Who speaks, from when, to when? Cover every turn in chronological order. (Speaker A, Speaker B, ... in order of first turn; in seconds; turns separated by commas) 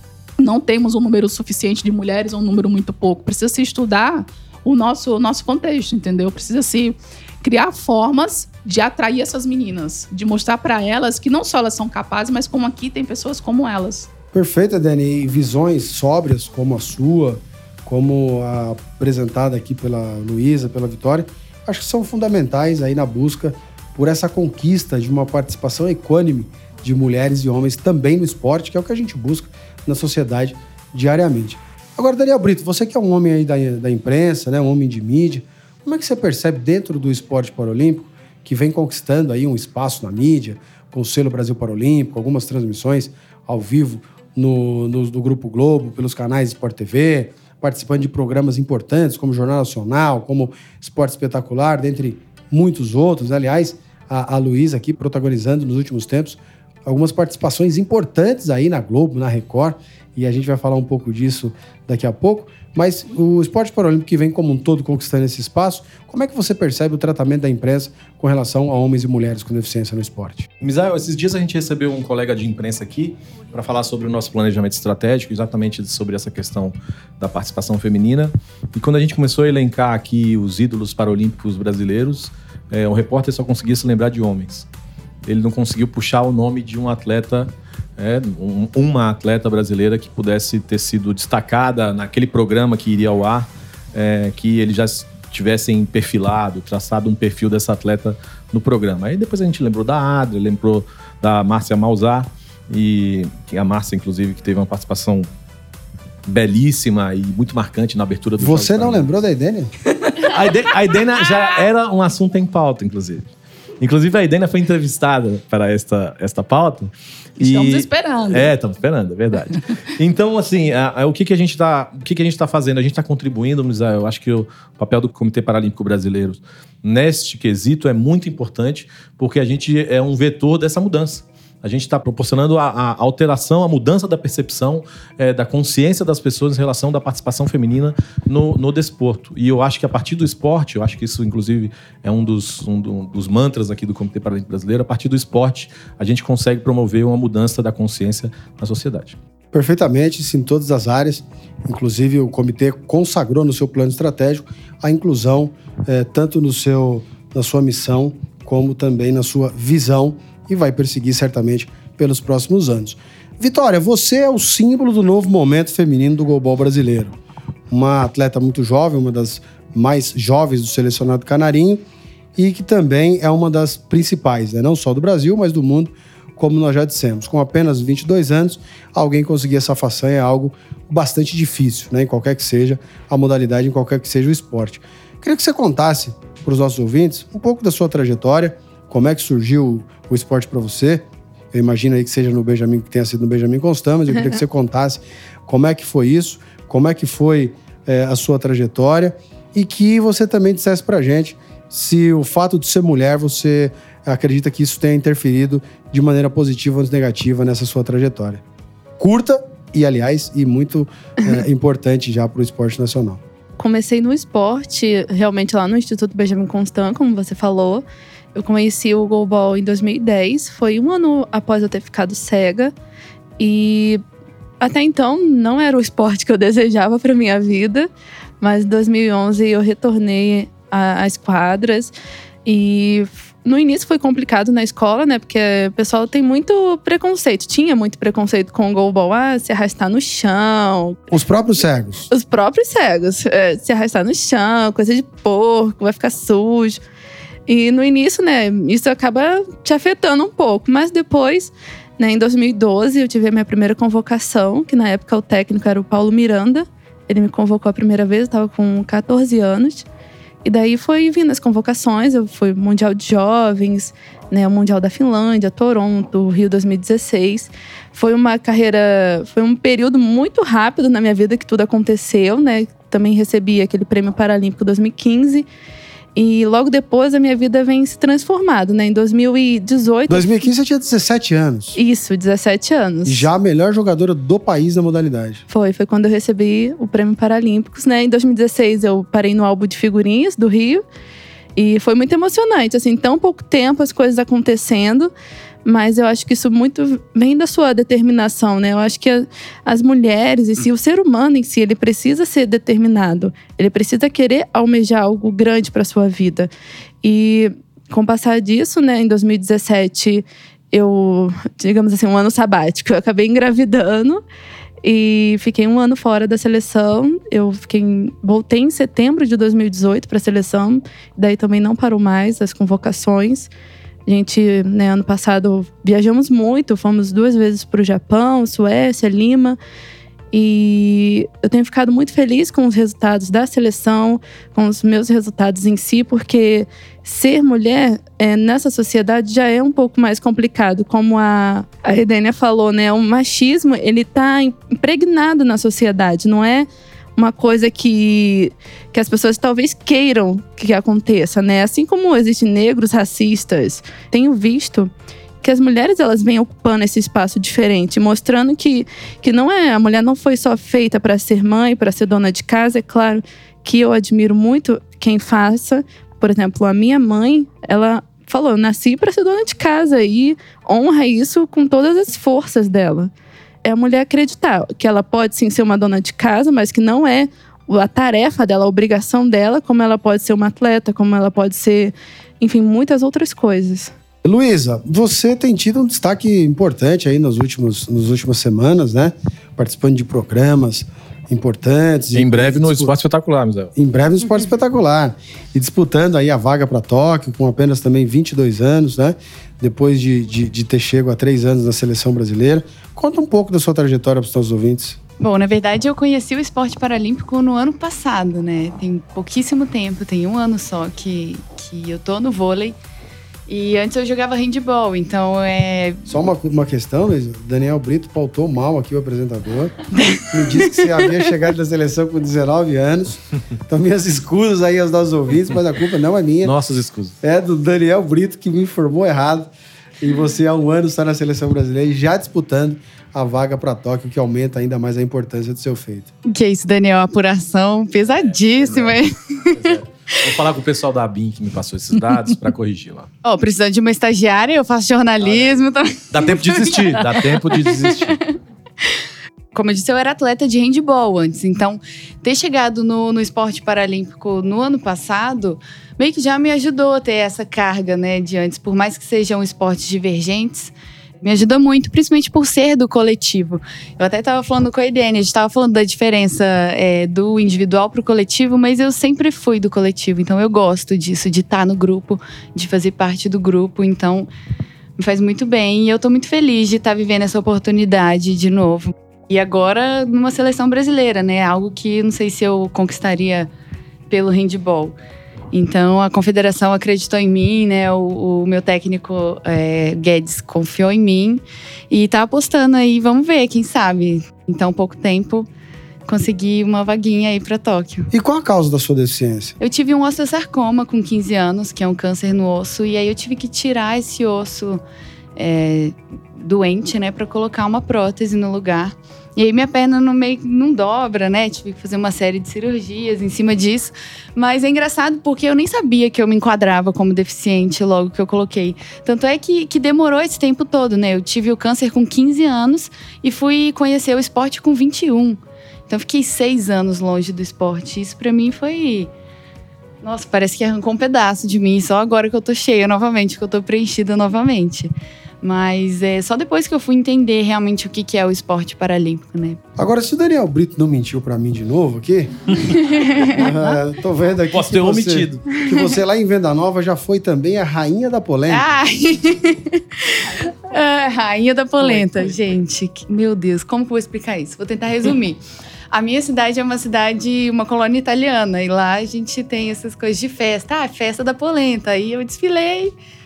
Speaker A: 0.4-14.1, Speaker B: 14.3-70.5, Speaker C: 70.6-84.7, Speaker C: 85.2-105.3, Speaker C: 106.2-109.1, Speaker B: 108.4-109.7, Speaker C: 110.2-149.2, Speaker A: 117.4-118.5, Speaker B: 149.5-167.2, Speaker B: 167.7-171.8, Speaker B: 172.4-208.4, Speaker B: 209.0-213.2, Speaker D: 213.6-217.8, Speaker D: 218.3-222.7, Speaker D: 223.4-224.0, Speaker D: 224.6-227.9, Speaker D: 228.4-231.9, Speaker D: 232.4-241.0, Speaker B: 241.1-242.1, Speaker D: 242.1-246.8, Speaker D: 247.5-259.9, Speaker D: 260.4-275.5, Speaker D: 276.1-280.4, Speaker B: 280.1-281.8, Speaker D: 281.8-283.3, Speaker B: 283.1-285.4, Speaker D: 285.5-290.8, Speaker D: 291.6-295.1, Speaker D: 295.6-306.5, Speaker D: 307.0-314.2, Speaker D: 314.8-323.5, Speaker D: 324.1-329.6, Speaker D: 330.3-354.9, Speaker D: 355.4-373.1, Speaker D: 373.6-383.9, Speaker B: 384.2-392.9, Speaker C: 392.1-393.7, Speaker B: 393.8-405.0, Speaker E: 405.2-412.8, Speaker E: 413.5-416.1, Speaker B: 416.1-419.7, Speaker E: 420.0-420.9, Speaker B: 420.3-426.6, Speaker C: 426.4-427.1, Speaker B: 427.2-436.1, Speaker E: 436.3-440.2, Speaker C: 438.1-439.0, Speaker C: 439.5-443.1, Speaker E: 443.2-448.2, Speaker C: 445.2-448.2, Speaker E: 449.5-474.3, Speaker E: 475.0-483.5, Speaker E: 484.1-485.0, Speaker E: 485.5-495.5, Speaker E: 496.1-498.1, Speaker B: 498.1-499.6, Speaker E: 499.6-504.8, Speaker E: 505.4-529.1, Speaker E: 530.0-534.9, Speaker E: 535.4-539.6, Speaker B: 539.8-548.7, Speaker E: 542.7-543.6, Speaker C: 544.5-545.6, Speaker E: 548.5-562.9